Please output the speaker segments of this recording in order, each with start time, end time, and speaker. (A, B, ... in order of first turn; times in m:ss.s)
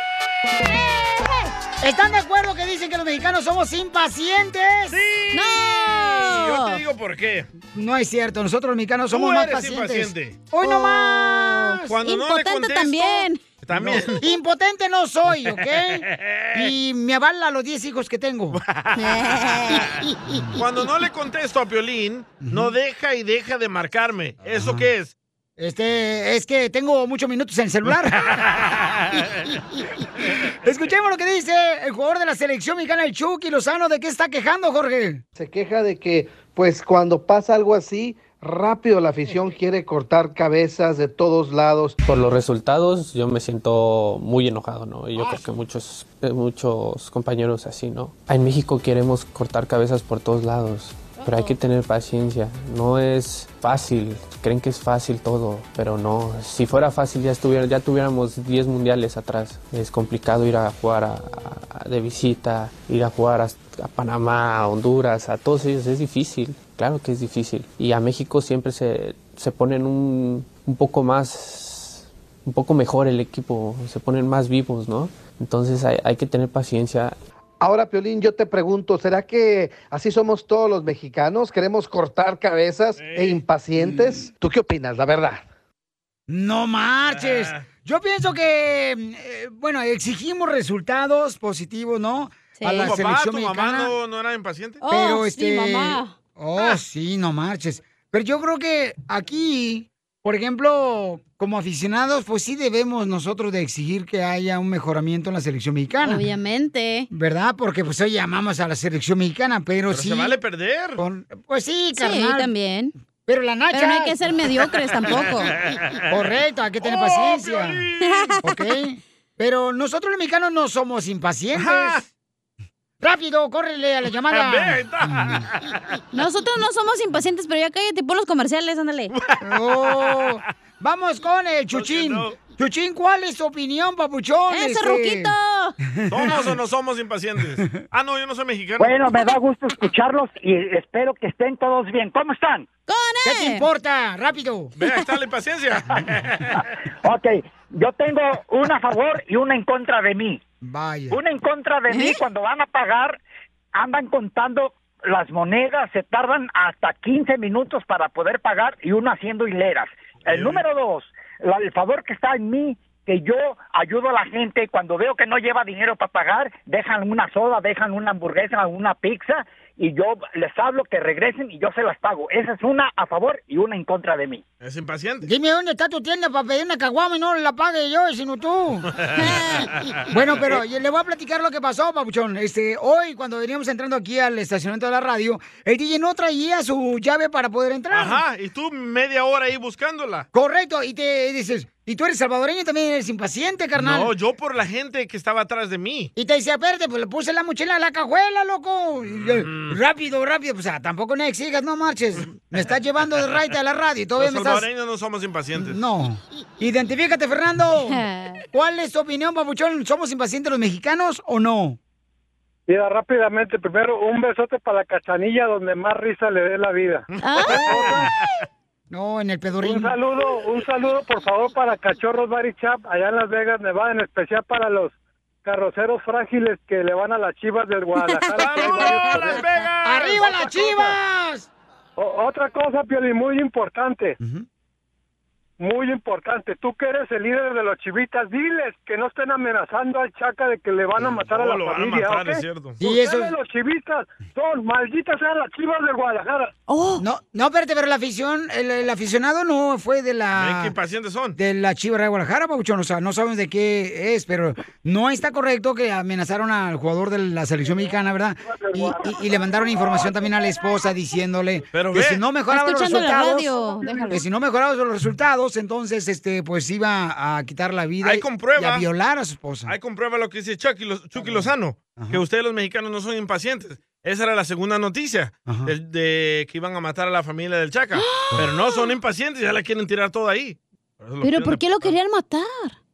0:01.8-0:05.0 A
0:04.9-0:07.5 B
0:05.3-0:06.8 C
0:07.7-0:12.0 A
0:09.1-0:10.5 B
0:10.6-0:11.4 C
0:11.8-0:14.2 B
0:12.0-0:14.2 C
0:13.8-0:18.6 A
0:16.1-0:16.7 B
0:18.5-0:19.9 B
0:19.0-0:19.9 C
0:20.3-0:20.6 A
0:20.6-0:25.2 B
0:22.4-0:22.7 A
0:24.6-0:24.9 A
0:25.6-0:28.4 A
0:28.4-0:29.0 B
0:30.6-0:35.2 A
0:35.4-0:42.0 D
0:42.0-1:17.2 E
0:51.1-0:51.6 C
1:17.6-1:25.5 D
1:23.0-1:23.4 B
1:26.3-1:33.9 A
1:27.1-1:27.6 B
1:32.5-1:32.9 C
1:32.7-1:34.8 B
1:34.8-1:36.8 C
1:34.9-1:46.2 A
1:46.0-1:47.1 C
1:47.1-1:50.4 A
1:49.9-1:51.0 B
1:51.0-1:52.5 A
1:51.9-1:52.9 C
1:53.3-1:54.2 A
1:53.7-1:55.5 C
1:55.0-1:56.0 B
1:56.1-1:57.8 A
1:56.8-1:58.4 B
1:58.0-1:58.6 C
1:58.4-2:02.0 A
2:01.6-2:02.0 B
2:03.0-2:05.4 A
2:04.3-2:05.8 B
2:06.1-2:09.1 C
2:09.1-2:10.3 B
2:09.4-2:15.3 A
2:11.7-2:12.4 B
2:14.5-2:15.8 C
2:15.9-2:16.4 A
2:16.1-2:19.0 B
2:18.8-2:22.7 F
2:22.9-2:23.6 C
2:23.2-2:24.7 A
2:24.8-2:26.5 B
2:27.0-2:30.4 F
2:30.6-2:31.2 A
2:31.1-2:33.2 F
2:31.9-2:32.2 C
2:33.7-2:54.4 F
2:40.3-2:40.6 B
2:54.6-2:55.3 B
2:55.2-2:58.9 A
2:59.0-3:00.6 B
2:59.2-2:59.7 C
3:00.1-3:08.2 A
3:07.9-3:10.3 B
3:10.3-3:14.1 A
3:13.8-3:16.1 B
3:16.2-3:24.6 A
3:19.2-3:19.8 B
3:24.2-3:25.8 B
3:25.6-3:31.8 A
3:27.9-3:28.4 C
3:32.7-3:38.1 G
3:37.2-3:37.7 C
3:37.2-3:38.1 B
3:38.9-3:40.0 A
3:39.6-3:49.4 G
3:48.0-3:49.1 C
3:48.3-3:50.5 B
3:49.8-3:51.5 A
3:50.6-3:51.0 G
3:52.0-3:54.2 G
3:54.2-3:54.5 A
3:55.6-4:06.5 G
4:01.3-4:02.8 B
4:02.8-4:03.3 A
4:06.7-4:07.0 C
4:07.0-4:10.7 A
4:10.3-4:11.4 B
4:11.4-4:23.5 A
4:18.4-4:20.1 G
4:21.7-4:22.2 B
4:22.5-4:24.1 C
4:23.8-4:24.1 G
4:24.1-4:29.7 A
4:28.0-4:28.9 B
4:29.7-4:42.0 B
4:31.2-4:32.2 A
4:35.5-4:35.7 A
4:38.0-4:38.9 C
4:41.2-4:42.8 C